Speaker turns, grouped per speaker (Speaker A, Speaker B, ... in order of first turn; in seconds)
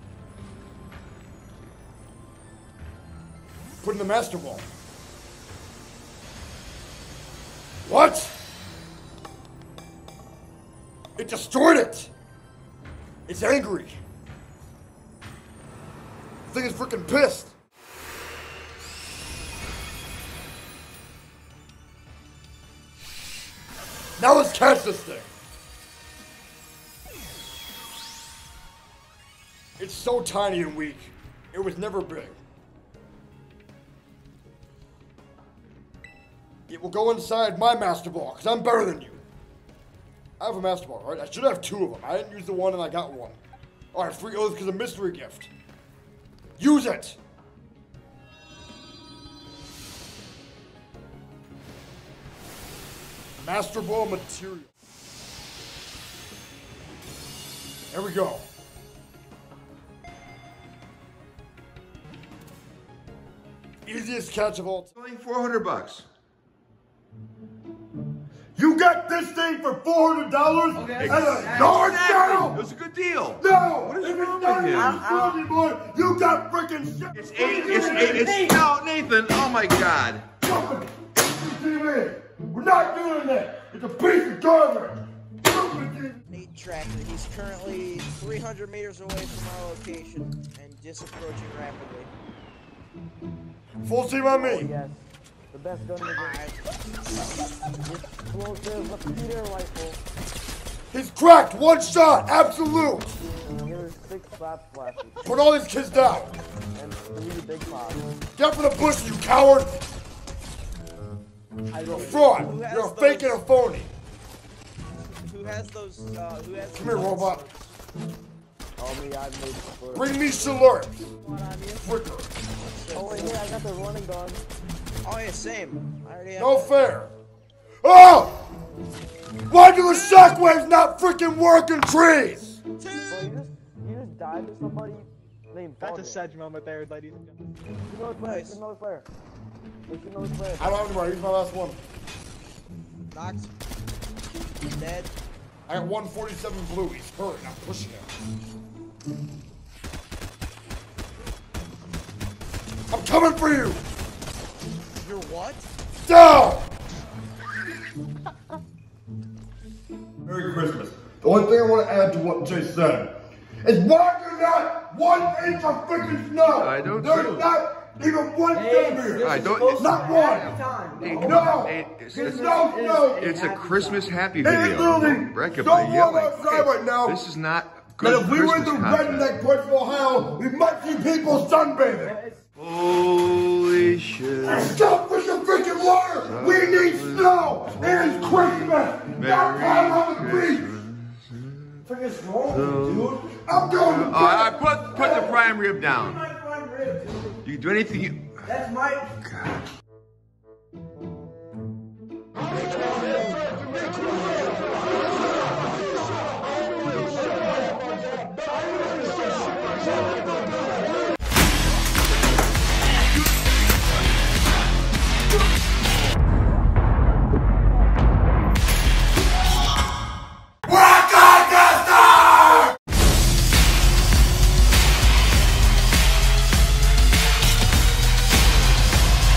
Speaker A: 3.8-4.7, 7.8-8.4, 11.2-12.1, 13.3-14.0, 16.5-17.5, 24.2-25.3, 29.8-32.4, 36.7-39.2, 40.4-43.4, 43.9-45.5, 46.6-47.2, 53.4-54.7, 57.9-58.4, 63.8-64.9, 68.5-72.6, 73.4-78.3, 80.4-86.2, 93.8-94.7, 100.9-103.2, 105.2-106.3, 108.4-109.7, 111.8-113.9, 116.7-117.4, 119.9-121.1, 121.8-122.3, 126.3-127.1, 127.8-128.5, 129.5-132.6, 140.6-141.8, 145.7-148.1, 152.9-153.8, 156.1-156.7, 160.2-170.6, 171.2-173.3, 174.4-177.2, 178.0-182.1, 184.4-190.7, 193.3-194.6, 202.8-204.6, 206.2-210.2
Speaker B: 65.0-66.1, 71.0-75.0, 77.1-80.2, 166.5-167.5, 169.2-169.9, 171.0-179.3, 182.6-184.8, 186.0-191.8, 192.5-193.2, 193.7-196.2, 197.4-198.3, 199.2-199.6, 220.7-222.6
Speaker C: 70.8-71.6, 74.7-75.3, 77.7-78.5, 94.2-96.4, 97.9-100.0, 103.5-105.3, 106.7-108.1, 118.8-120.2, 121.3-121.8, 122.9-124.4, 133.1-136.3, 137.9-139.1, 139.9-140.8, 168.5-171.6, 172.1-174.1, 182.0-182.4, 191.8-193.2, 194.9-197.4, 198.4-199.1
Speaker D: 86.3-92.1, 96.0-96.6, 112.4-113.4, 115.2-117.4, 122.6-123.4, 125.0-126.5, 132.8-133.0, 138.2-138.6, 143.1-143.5, 144.6-145.1, 155.0-155.7
Speaker E: 111.7-112.4, 135.8-137.3